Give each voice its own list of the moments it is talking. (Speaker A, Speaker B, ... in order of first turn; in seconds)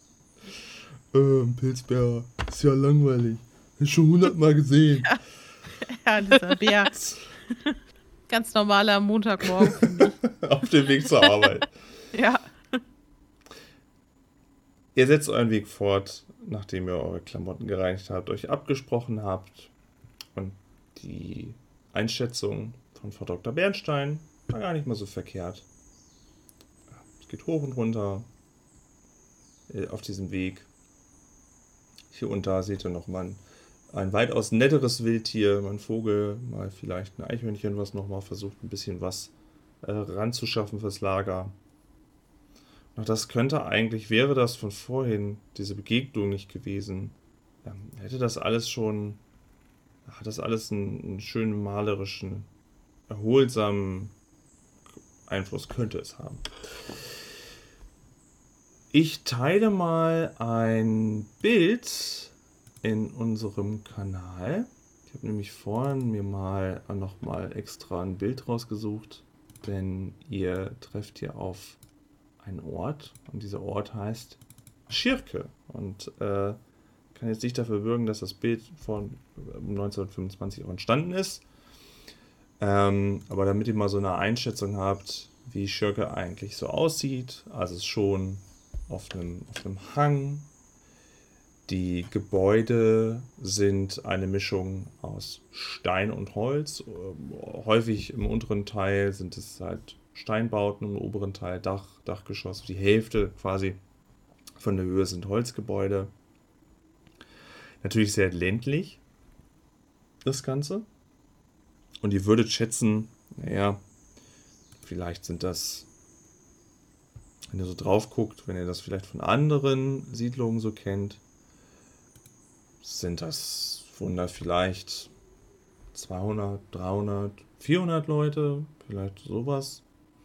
Speaker A: 1.1-5.2, 6.9-7.2, 10.0-11.7, 14.9-19.7, 20.4-25.6, 27.0-28.3, 29.7-30.7, 32.1-41.5, 43.0-49.2, 50.1-52.5, 53.1-54.1, 55.3-57.1, 58.9-71.8, 72.4-76.6, 77.1-81.5, 82.6-90.5, 91.7-103.8, 104.6-106.1, 107.8-109.0, 110.2-110.9, 112.0-113.8, 114.8-115.9, 117.5-121.2, 122.8-125.1, 125.9-129.8
Speaker B: 5.8-6.9, 7.5-7.8, 8.3-10.2, 11.1-11.3, 12.1-12.8